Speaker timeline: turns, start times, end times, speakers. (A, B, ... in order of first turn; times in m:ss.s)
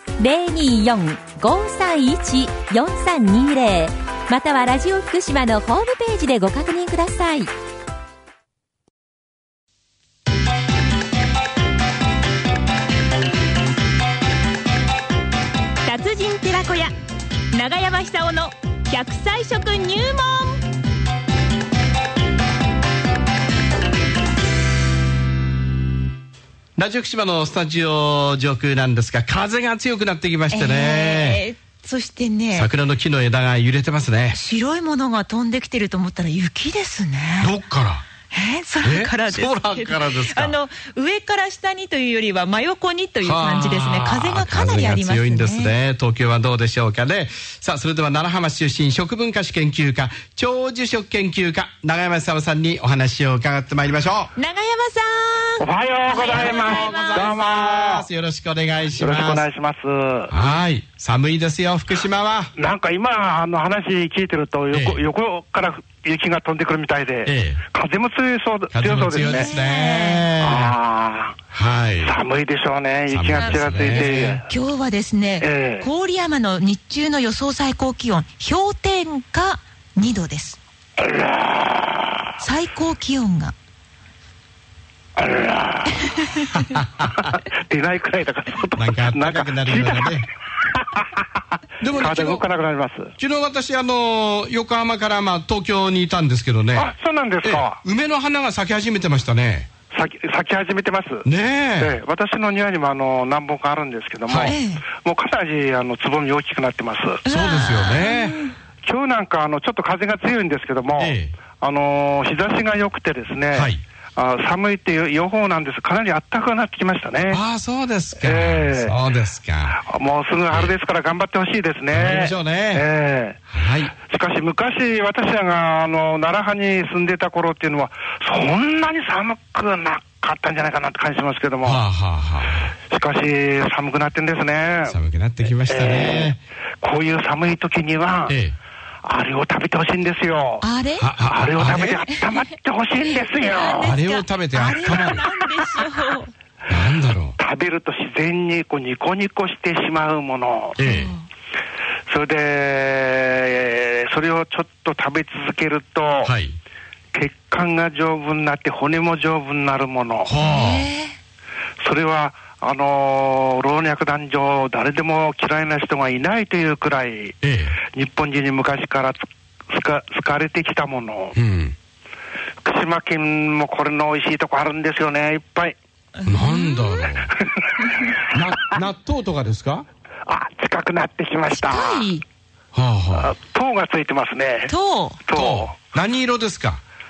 0:00.2-0:07.5 A
0:15.8-0:16.9 B
0:17.5-0:20.6 B
0:26.8-0:31.4 C
0:30.5-0:32.7 D
0:32.5-0:34.4 C
0:34.3-0:37.5 D
0:37.4-0:38.1 C
0:38.3-0:45.7 D
0:38.8-0:40.6 C
0:43.2-0:54.3 C
0:54.4-0:55.4 D
0:54.5-0:57.2 B
0:55.6-0:58.1 E
0:56.1-0:59.5 C
0:59.0-1:00.3 E
1:00.3-1:02.5 C
1:02.6-1:09.5 E
1:04.7-1:05.1 C
1:07.2-1:07.6 C
1:08.7-1:10.7 C
1:09.2-1:10.3 D
1:10.4-1:11.4 E
1:11.5-1:12.2 C
1:12.0-1:14.5 E
1:13.1-1:14.4 C
1:14.5-1:20.6 D
1:15.4-1:15.9 E
1:21.0-1:22.3 E
1:22.4-1:23.6 D
1:25.2-1:30.3 E
1:26.8-1:27.0 C
1:28.8-1:30.2 C
1:31.8-1:32.5 C
1:31.9-1:33.1 E
1:33.2-1:39.7 C
1:36.8-1:37.8 E
1:39.9-1:41.3 E
1:41.2-1:42.0 C
1:41.8-1:47.2 E
1:44.3-1:44.6 C
1:44.4-1:44.8 D
1:47.3-1:48.4 C
1:47.3-1:48.5 D
1:48.8-1:57.4 E
1:51.0-1:51.3 C
1:53.5-1:53.8 C
1:57.3-1:59.8 C
1:58.2-1:59.0 E
1:59.8-2:03.4 E
2:01.9-2:02.9 C
2:03.5-2:03.9 C
2:04.0-2:11.8 E
2:11.6-2:12.7 C
2:12.9-2:18.4 E
2:14.9-2:16.4 C
2:18.3-2:18.6 C
2:19.0-2:20.7 E
2:20.6-2:21.1 D
2:21.0-2:22.0 C
2:21.2-2:24.0 E
2:23.2-2:26.3 D
2:23.8-2:25.3 C
2:26.7-2:27.4 C
2:27.4-2:30.8 E
2:30.8-2:31.1 C
2:30.8-2:31.2 D
2:32.1-2:36.3 E
2:36.2-2:36.6 C
2:37.1-2:40.3 E
2:40.3-2:40.9 C
2:40.4-2:41.2 D
2:41.8-2:47.4 E
2:47.4-2:47.8 C
2:47.9-2:51.4 E
2:51.4-2:51.8 C
2:52.6-2:55.8 E
2:56.2-2:57.3 C
2:56.3-2:57.1 D
2:57.3-2:58.7 E
2:58.3-2:59.8 C
3:00.3-3:02.1 E
3:01.5-3:02.2 D
3:02.7-3:03.3 C
3:03.1-3:05.8 E
3:04.7-3:05.2 D
3:05.4-3:06.8 C